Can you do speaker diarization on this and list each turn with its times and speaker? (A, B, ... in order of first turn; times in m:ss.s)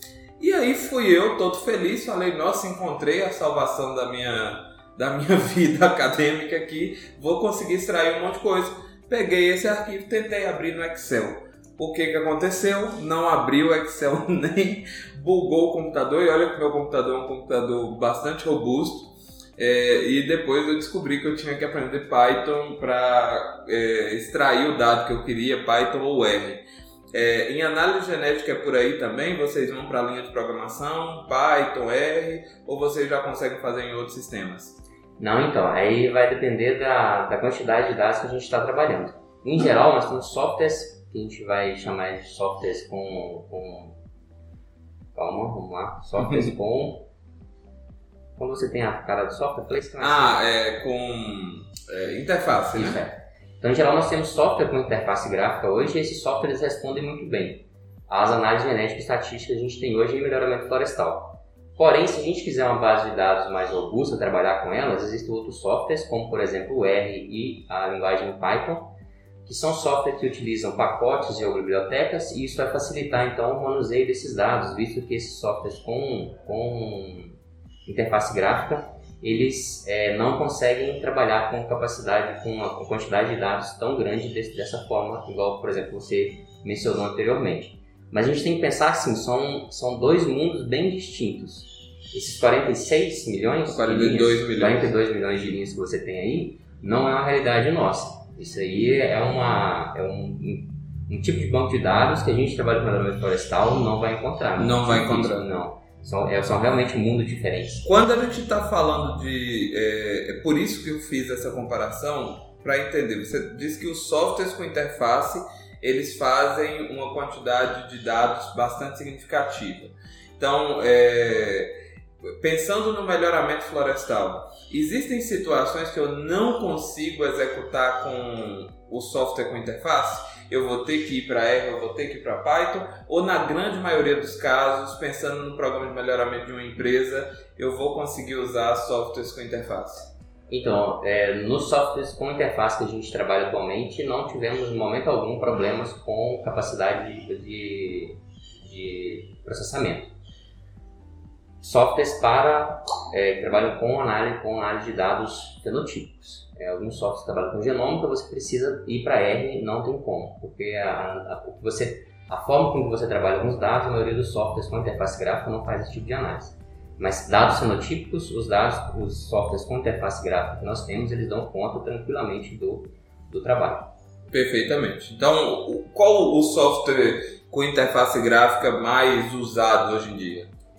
0:00.4-0:34.8 A
0:35.2-0:44.0 B
0:45.2-0:47.1 B
0:46.2-0:46.5 A
0:48.4-0:50.4 B
0:50.0-0:53.0 A
0:52.7-1:08.9 B
1:09.4-1:47.9 B
1:33.7-1:34.9 A
1:44.6-1:45.5 A
1:47.8-2:01.7 A
2:02.4-2:20.1 A
2:20.5-2:30.1 B
2:31.6-2:53.9 B
2:54.3-3:00.5 A